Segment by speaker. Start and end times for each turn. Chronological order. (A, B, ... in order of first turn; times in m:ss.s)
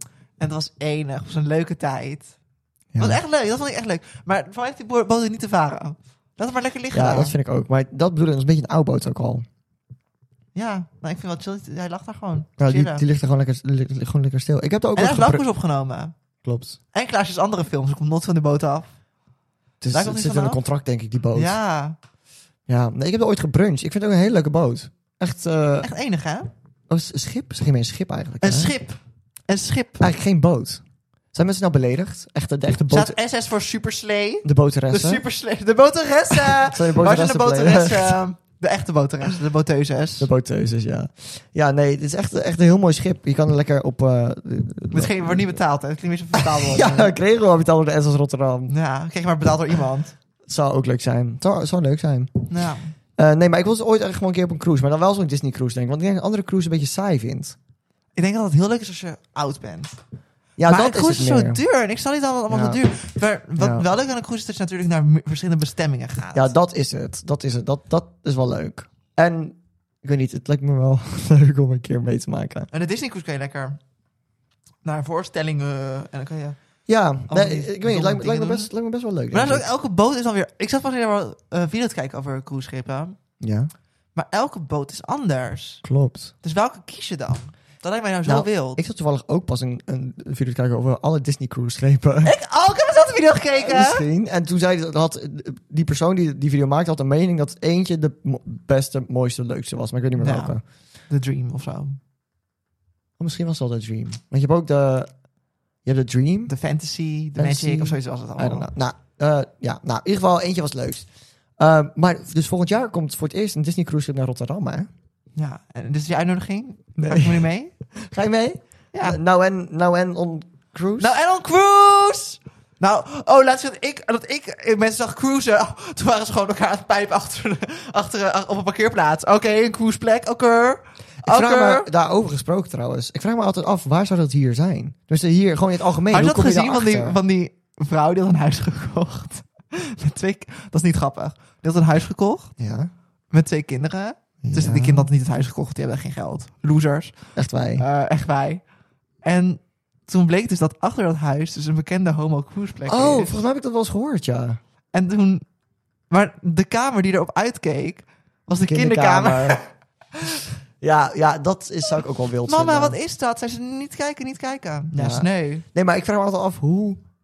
0:00.4-0:02.3 A
0:02.9-0:03.2 B
0:03.0-0:07.4 A
0:06.9-0:09.5 B
0:10.6-0:13.0 A
0:12.6-0:15.4 B
0:15.0-0:16.1 A
0:16.4-0:16.8 B
0:16.9-0:18.9 A
0:19.8-0:21.6 B
0:19.9-0:20.6 A
0:21.4-0:22.0 A
0:22.7-0:25.9 B
0:25.8-0:26.5 A
0:26.9-0:28.7 B
0:28.4-0:30.1 A
0:30.0-0:30.8 B
0:31.3-0:33.2 B
0:32.9-0:40.3 A
0:34.4-0:35.2 B
0:36.6-0:38.2 B
0:40.2-0:45.6 B
0:44.9-0:47.2 A
0:46.4-0:48.7 B
0:48.7-0:50.2 A
0:50.5-0:52.5 B
0:52.5-0:52.9 A
0:53.2-0:57.6 B
0:58.2-1:00.0 A
1:00.6-1:01.6 B
1:00.6-1:06.5 A
1:02.5-1:02.8 B
1:03.6-1:03.9 B
1:06.4-1:12.7 B
1:12.7-1:13.8 A
1:14.8-1:16.6 A
1:16.9-1:19.7 B
1:17.3-1:18.7 A
1:19.3-1:23.2 A
1:23.4-1:23.7 B
1:24.2-1:25.8 A
1:25.8-1:26.3 B
1:26.4-1:28.8 A
1:28.3-1:32.3 B
1:32.2-1:34.0 A
1:33.6-1:40.6 B
1:40.2-1:42.0 A
1:43.2-1:45.1 B
1:45.8-1:46.5 B
1:46.5-1:48.7 A
1:47.4-1:51.1 B
1:51.6-1:54.9 B
1:55.4-1:57.8 A
1:57.0-1:57.5 B
1:58.0-2:01.1 B
1:58.9-1:59.2 A
2:01.0-2:11.9 A
2:11.2-2:17.2 B
2:16.1-2:22.5 A
2:22.6-2:22.9 B
2:23.3-2:27.1 A
2:24.4-2:25.1 B
2:27.4-2:27.8 B
2:27.8-2:28.6 A
2:29.2-2:33.3 A
2:32.9-2:34.6 B
2:34.9-2:35.4 A
2:36.1-2:39.6 A
2:38.6-2:39.6 B
2:40.8-2:43.0 B
2:42.5-2:45.6 A
2:45.0-2:47.0 B